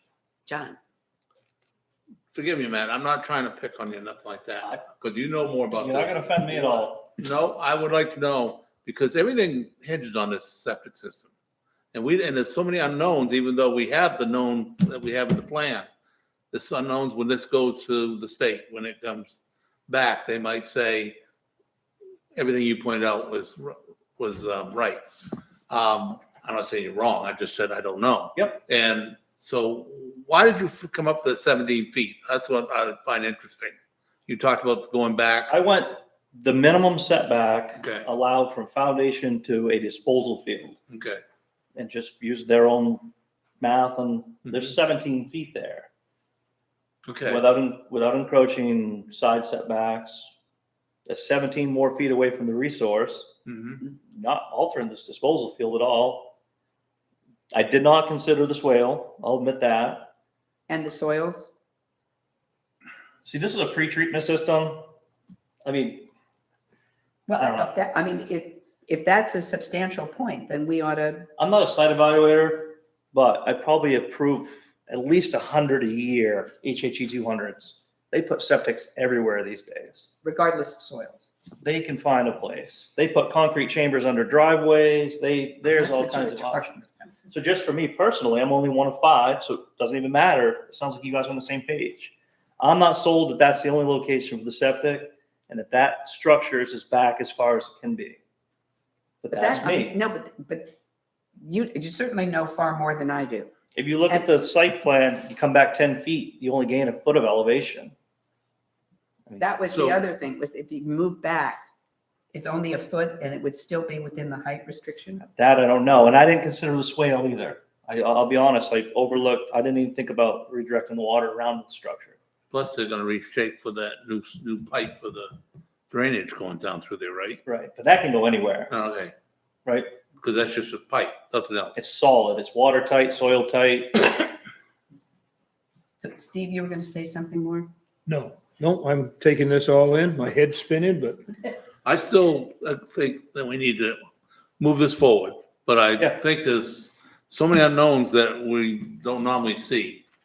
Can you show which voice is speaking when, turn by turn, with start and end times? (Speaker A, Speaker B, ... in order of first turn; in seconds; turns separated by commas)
Speaker A: 0.5-0.8, Speaker B: 2.3-11.3, Speaker C: 5.7-7.1, Speaker B: 11.9-15.9, Speaker B: 16.5-19.3, Speaker B: 19.9-21.2, Speaker B: 22.3-25.0, Speaker B: 25.7-33.7, Speaker C: 28.4-28.6, Speaker B: 34.3-35.5, Speaker C: 35.5-40.8, Speaker B: 37.8-38.0, Speaker B: 40.9-41.2, Speaker C: 41.7-45.9, Speaker B: 44.5-44.7, Speaker B: 47.0-47.4, Speaker C: 47.3-50.3, Speaker C: 51.1-53.3, Speaker B: 53.5-53.8, Speaker C: 54.0-56.3, Speaker C: 57.5-60.1, Speaker A: 60.7-61.5, Speaker C: 63.2-64.9, Speaker C: 65.6-66.1, Speaker A: 67.3-71.3, Speaker C: 67.4-67.7, Speaker C: 71.4-80.1, Speaker A: 80.2-81.3, Speaker C: 81.6-98.2, Speaker A: 85.7-87.1, Speaker C: 99.2-100.0, Speaker A: 99.3-100.7, Speaker A: 101.4-103.5, Speaker C: 103.7-107.9, Speaker A: 109.4-111.6, Speaker B: 109.7-110.0, Speaker A: 112.3-115.2, Speaker C: 115.2-122.2, Speaker B: 122.5-125.3, Speaker B: 125.9-127.4, Speaker C: 127.5-128.7, Speaker B: 128.7-129.1, Speaker C: 129.6-129.9, Speaker B: 130.2-131.8, Speaker C: 131.8-134.3, Speaker A: 136.0-137.7, Speaker D: 138.1-141.2, Speaker B: 141.8-144.0, Speaker B: 144.6-150.0